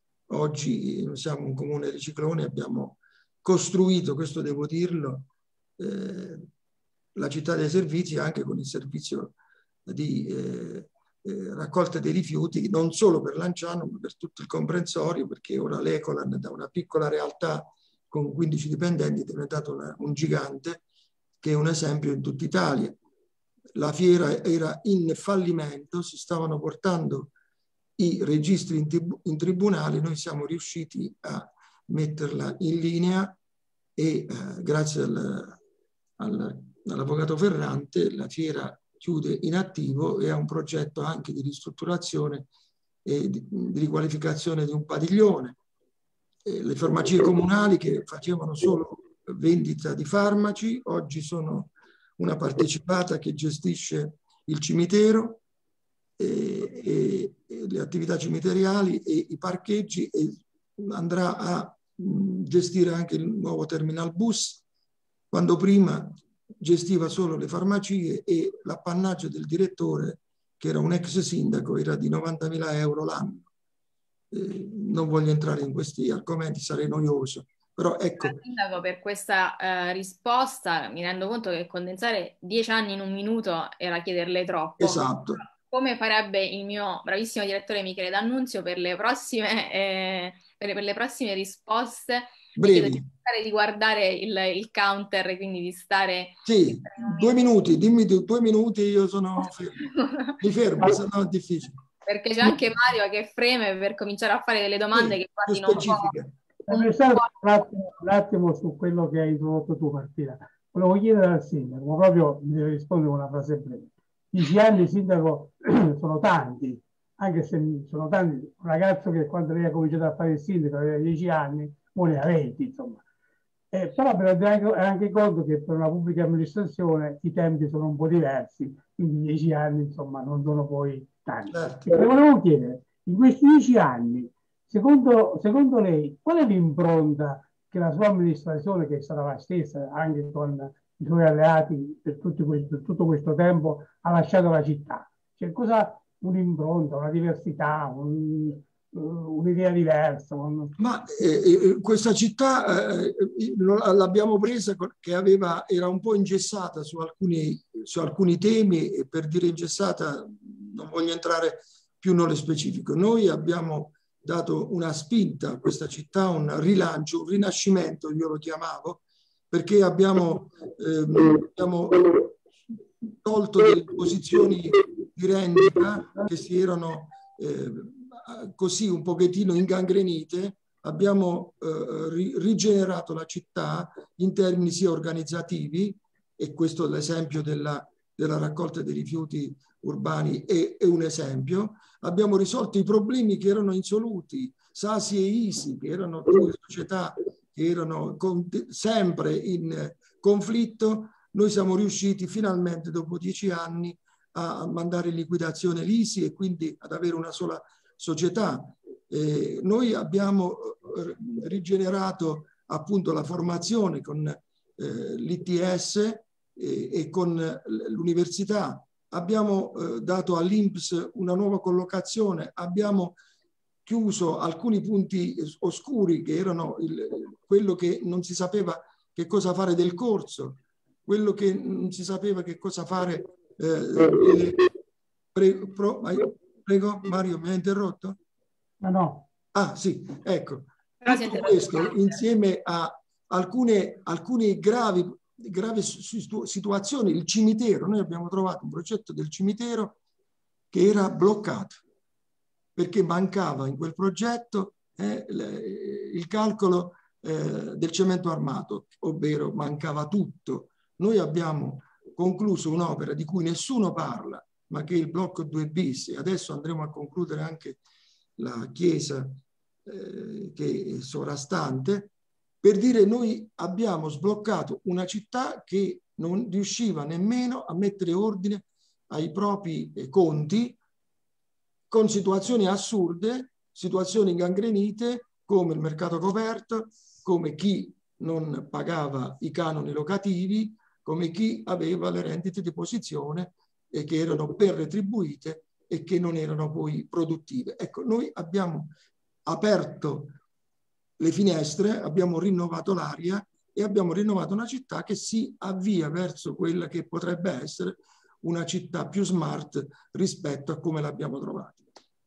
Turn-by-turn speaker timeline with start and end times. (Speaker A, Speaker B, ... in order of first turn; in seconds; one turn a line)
Speaker A: 0.3-6.5
Speaker A: 7.2-9.3
Speaker A: 9.9-20.8
Speaker A: 21.4-23.0
Speaker A: 23.8-27.3
Speaker A: 28.0-33.4
Speaker A: 34.0-35.6
Speaker A: 36.2-42.5
Speaker A: 43.0-45.6
Speaker A: 46.5-55.4
Speaker A: 56.2-64.6
Speaker A: 65.3-73.5
Speaker A: 74.3-78.4
Speaker B: 78.2-97.4
Speaker A: 84.8-85.4
Speaker A: 92.6-93.1
Speaker A: 96.5-101.8
Speaker B: 100.0-100.3
Speaker B: 102.1-106.2
Speaker A: 104.9-106.3
Speaker C: 106.7-123.0
Speaker B: 106.7-107.3
Speaker C: 123.7-150.8
Speaker A: 131.5-131.9
Speaker A: 150.8-172.4
Speaker A: 173.0-223.2
Speaker A: 223.9-234.7
Speaker A: 235.3-238.2
Speaker C: 238.8-239.3
Speaker A: 239.5-250.0
Speaker B: 241.0-242.2
Speaker A: 250.7-251.8
Speaker A: 252.8-267.8
Speaker A: 268.4-280.8
Speaker A: 281.9-298.9
Speaker A: 299.5-300.4
Speaker A: 301.2-311.8